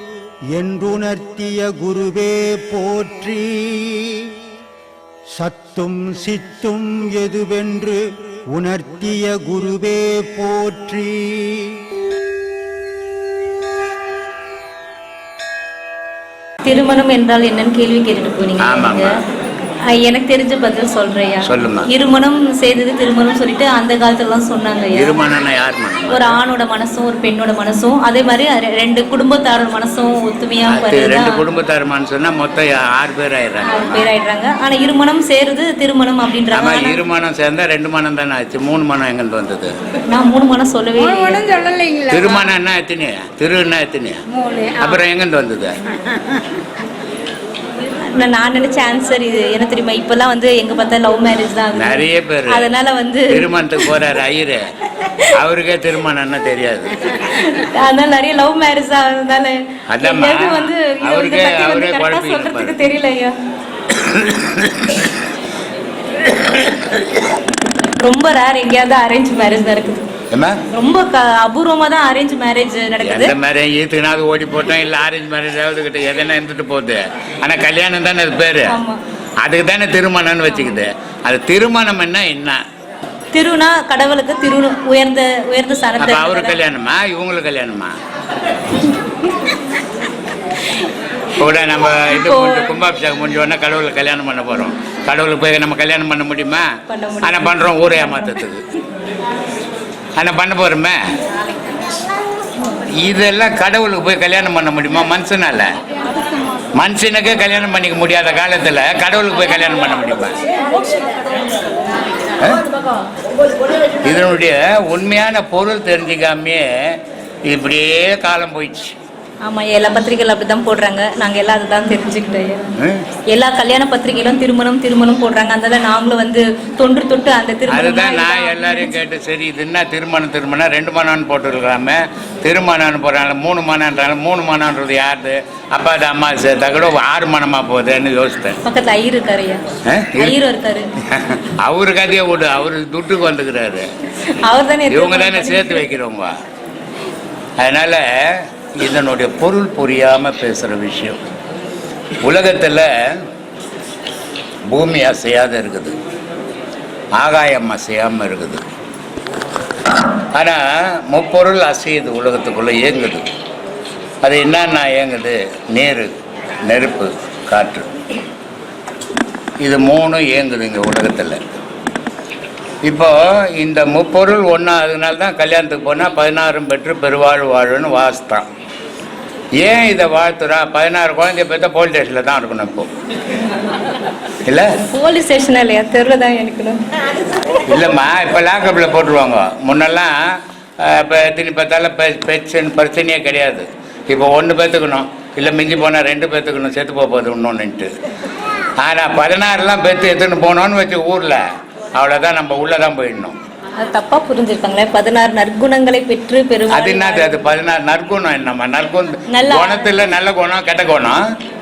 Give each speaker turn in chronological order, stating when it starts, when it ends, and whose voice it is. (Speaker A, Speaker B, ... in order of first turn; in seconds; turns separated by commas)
Speaker A: 0.5-4.3, Speaker A: 5.3-11.7, Speaker B: 16.6-19.1, Speaker C: 18.6-19.1, Speaker B: 19.9-25.2, Speaker C: 21.4-21.9, Speaker C: 24.9-26.4, Speaker B: 26.1-31.4, Speaker C: 30.7-34.1, Speaker B: 33.6-37.0, Speaker C: 36.5-39.7, Speaker B: 40.1-41.9, Speaker C: 42.1-44.2, Speaker C: 44.8-45.8, Speaker B: 48.0-53.9, Speaker C: 51.8-52.7, Speaker C: 53.3-54.6, Speaker C: 55.4-56.9, Speaker B: 57.2-63.3, Speaker C: 59.9-62.8, Speaker C: 63.9-65.1, Speaker C: 66.4-66.7, Speaker B: 68.0-70.0, Speaker C: 70.3-70.6, Speaker B: 70.7-73.3, Speaker C: 73.0-78.8, Speaker B: 78.7-79.0, Speaker C: 79.4-82.6, Speaker B: 83.3-86.6, Speaker C: 86.0-87.9, Speaker C: 91.4-96.7, Speaker B: 92.1-92.7, Speaker B: 96.9-98.3, Speaker C: 97.2-98.6, Speaker C: 100.2-101.0, Speaker C: 102.9-105.7, Speaker C: 106.7-110.4, Speaker C: 114.0-116.9, Speaker C: 117.5-118.9, Speaker B: 119.4-122.7, Speaker B: 123.3-128.9, Speaker C: 127.7-138.6, Speaker B: 138.6-139.6, Speaker C: 139.9-140.3, Speaker B: 140.1-140.8, Speaker C: 141.1-143.9, Speaker B: 144.3-145.8, Speaker C: 144.9-146.3, Speaker C: 147.6-151.2, Speaker C: 152.2-152.9, Speaker C: 154.7-155.9, Speaker C: 157.2-158.6, Speaker C: 160.3-163.2, Speaker C: 164.2-166.1, Speaker C: 166.7-167.9, Speaker C: 169.6-171.4, Speaker C: 172.8-178.4, Speaker C: 179.6-182.9, Speaker B: 184.9-186.8, Speaker C: 187.7-190.1, Speaker C: 190.8-197.9, Speaker C: 198.8-201.4, Speaker C: 201.9-203.4, Speaker B: 203.8-207.3, Speaker C: 206.7-211.2, Speaker B: 209.3-209.9